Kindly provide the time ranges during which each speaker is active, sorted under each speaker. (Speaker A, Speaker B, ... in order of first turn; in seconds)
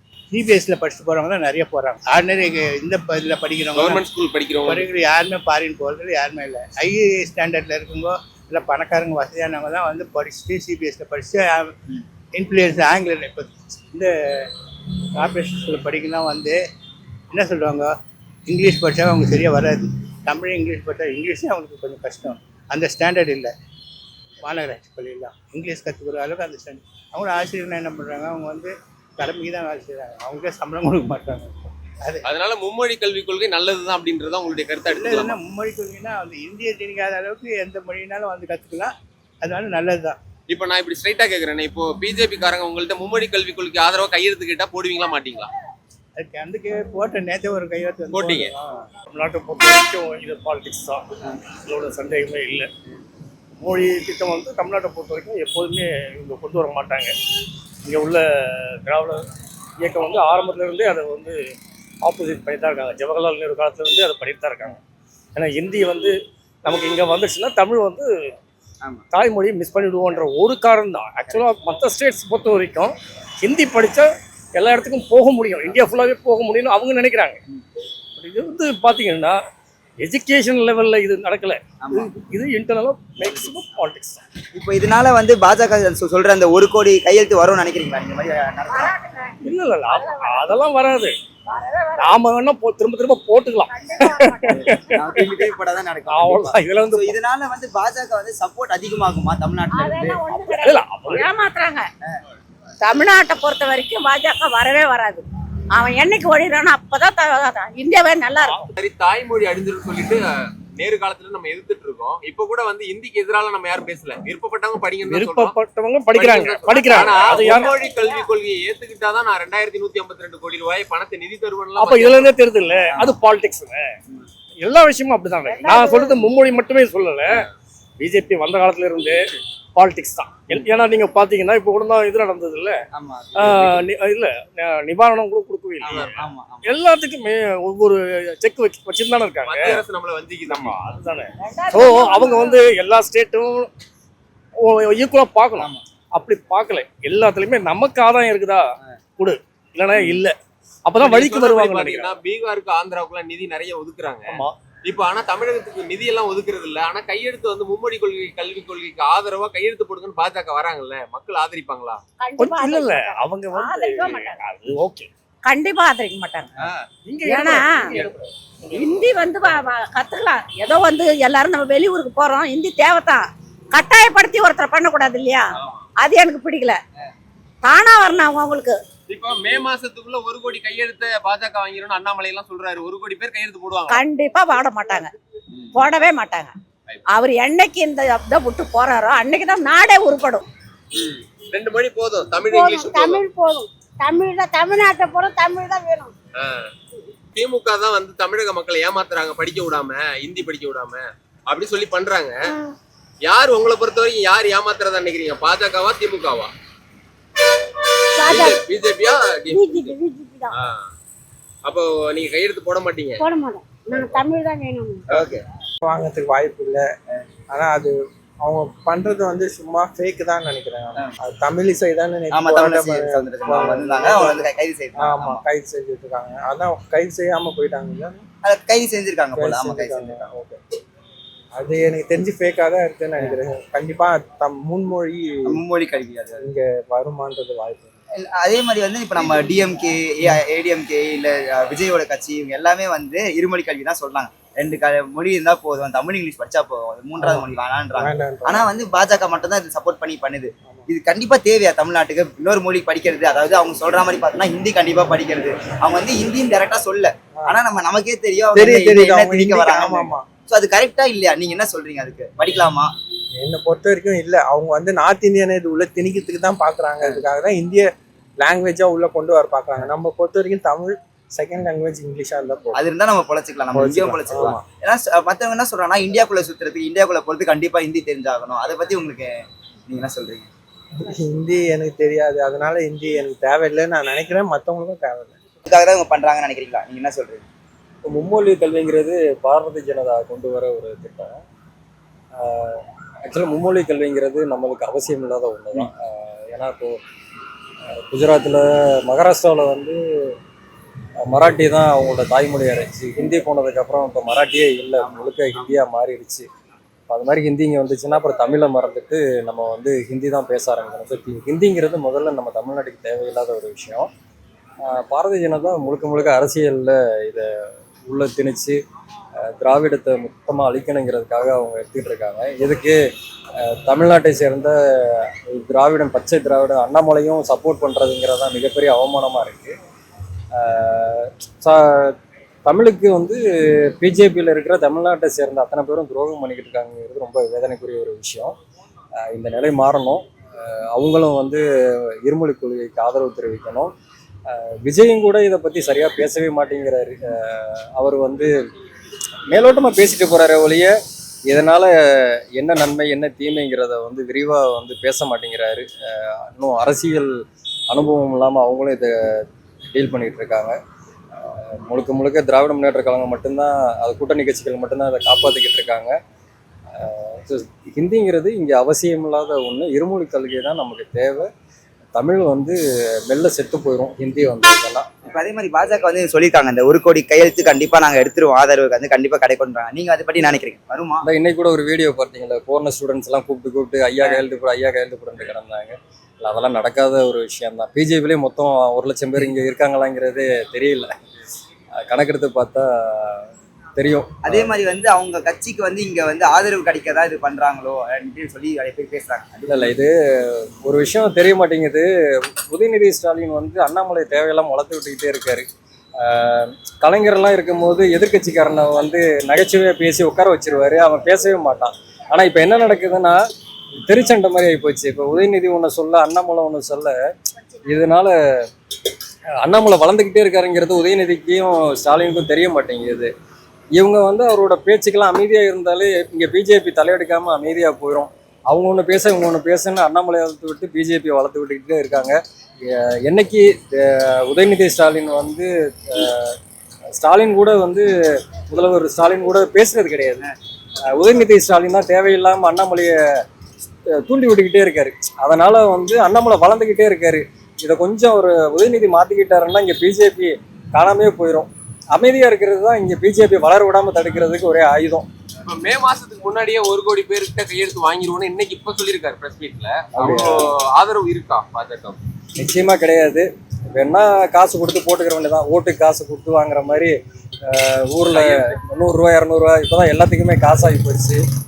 Speaker A: 0.3-4.0, 4.7-11.7, 12.3-14.1, 15.2-16.6, 17.3-17.9, 18.5-23.5, 24.4-32.2, 35.0-40.2, 46.2-48.6
Speaker B: 3.8-4.8, 32.2-35.4, 40.5-45.5, 48.1-48.5, 108.7-110.2, 110.8-115.5, 116.1-122.3, 139.4-140.8, 151.0-162.0, 166.6-166.8, 175.6-175.8, 179.1-184.0, 190.9-193.2, 196.4-196.7, 197.3-202.4, 203.2-206.5, 208.2-209.9, 210.5-210.9, 211.6-213.2, 455.6-462.2, 468.3-468.8
Speaker C: 49.1-51.0, 51.6-52.7, 53.6-57.1, 57.8-59.2, 59.8-61.4, 62.0-64.8, 65.3-66.1, 66.6-68.1, 69.1-77.4, 78.2-79.4, 80.0-84.2, 89.4-91.1, 92.0-95.4, 96.1-97.2, 100.3-101.3, 108.5-108.7, 115.0-117.9, 121.8-123.9, 124.6-127.5, 128.0-129.2, 129.7-132.8, 133.3-136.1, 136.6-139.8, 140.5-143.7, 144.6-150.3, 150.8-152.2, 154.3-154.6, 162.4-165.1, 167.0-168.2, 168.7-169.1
Speaker D: 81.8-82.1, 83.2-83.5, 84.5-88.9, 94.5-100.2, 122.9-123.2, 132.9-133.8, 135.8-136.7, 145.6-145.8, 215.1-215.4, 222.3-225.4, 228.4-230.3, 235.5-236.4, 238.2-262.9, 272.7-280.5, 285.6-287.4, 375.2-381.2, 394.4-399.9
Speaker E: 88.7-89.3, 89.9-90.6, 91.5-92.0, 93.7-94.6, 99.8-100.8, 125.5-126.3, 141.7-142.5, 192.5-196.1, 202.5-202.7, 208.2-208.6, 209.5-210.5, 213.2-215.0
Speaker F: 100.2-101.8, 102.8-105.2, 105.8-108.6, 141.5-142.6, 162.2-164.4, 165.4-166.5, 167.2-168.0, 168.7-176.8, 177.6-178.8, 183.9-185.1, 185.7-186.5, 187.1-190.5
Speaker G: 215.9-216.9, 217.5-224.4, 225.0-228.2, 229.3-230.6, 231.6-235.6, 236.4-237.9, 247.2-248.6, 258.5-260.2, 263.4-267.9, 268.4-272.8, 273.7-274.6, 281.0-285.4
Speaker H: 288.1-291.4, 292.3-297.0, 298.1-300.3, 301.3-306.5, 307.1-314.1, 314.8-317.5, 318.1-318.8, 319.4-323.0, 323.6-329.7, 330.5-332.1, 332.6-333.4, 334.0-338.6, 339.2-341.6, 342.2-343.9, 344.5-348.5, 349.5-350.9, 351.5-351.9, 352.6-357.3, 357.9-359.4, 359.9-360.8, 361.4-366.1, 366.9-371.5, 372.1-372.8, 373.3-375.1, 381.2-391.1, 392.1-394.7, 399.7-402.1, 402.7-405.7, 406.2-413.4, 414.0-417.1, 417.9-418.3, 419.6-423.3, 423.9-436.6, 437.2-438.1, 438.7-440.5, 441.1-443.2, 444.2-455.3, 460.1-460.7, 462.6-471.4